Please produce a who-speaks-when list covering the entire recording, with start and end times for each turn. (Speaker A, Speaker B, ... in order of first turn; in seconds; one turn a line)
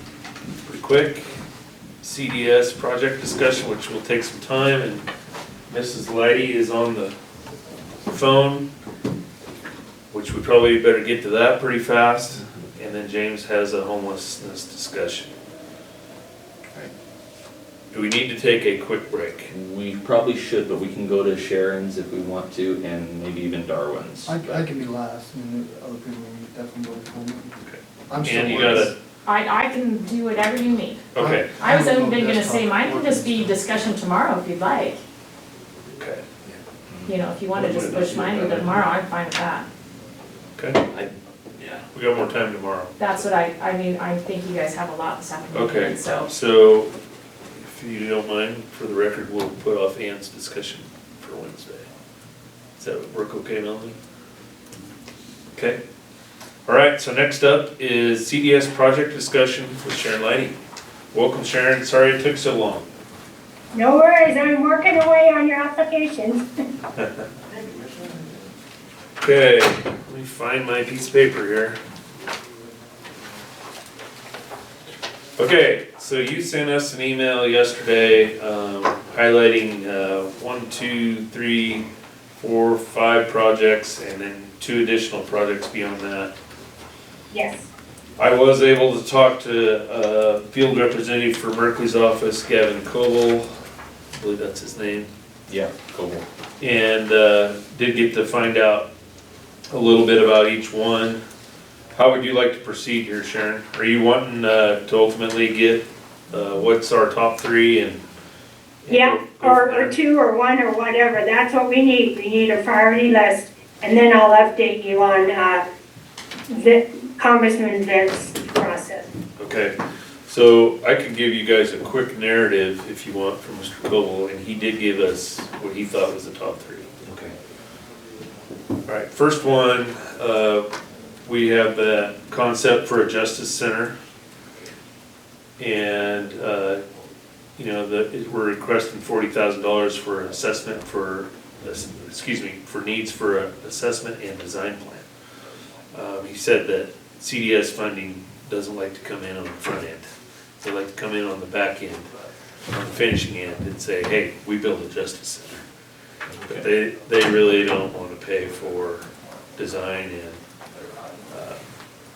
Speaker A: 0.6-1.3
Speaker A: 2.0-5.1
Speaker A: 5.7-7.1
Speaker A: 8.1-8.7
Speaker A: 10.1-15.3
Speaker A: 17.9-19.5
Speaker B: 19.5-24.4
Speaker C: 24.2-27.5
Speaker A: 27.6-28.9
Speaker C: 28.1-28.9
Speaker D: 29.2-35.0
Speaker A: 31.1-31.5
Speaker C: 31.1-33.5
Speaker A: 36.0-36.2
Speaker D: 37.0-39.7
Speaker A: 40.6-40.8
Speaker B: 40.9-41.8
Speaker A: 41.9-43.2
Speaker D: 43.0-46.3
Speaker A: 45.5-46.9
Speaker A: 47.6-51.9
Speaker A: 52.8-53.9
Speaker A: 56.7-60.5
Speaker A: 61.1-62.9
Speaker E: 63.7-66.4
Speaker A: 69.2-71.8
Speaker A: 75.3-81.8
Speaker A: 82.4-86.3
Speaker E: 87.3-87.7
Speaker A: 88.2-93.5
Speaker A: 94.1-95.1
Speaker B: 95.5-96.2
Speaker A: 96.6-98.9
Speaker A: 99.7-101.2
Speaker A: 101.9-108.0
Speaker A: 108.8-109.9
Speaker E: 108.9-115.6
Speaker E: 116.5-119.1
Speaker A: 119.4-119.8
Speaker A: 120.3-126.9
Speaker B: 127.0-127.3
Speaker A: 128.8-130.7
Speaker A: 131.2-133.9
Speaker A: 135.6-136.8
Speaker A: 137.6-145.1
Speaker A: 145.9-150.1
Speaker A: 150.6-152.1
Speaker A: 152.7-155.6
Speaker B: 156.3-156.6
Speaker A: 156.5-160.4
Speaker A: 161.3-161.6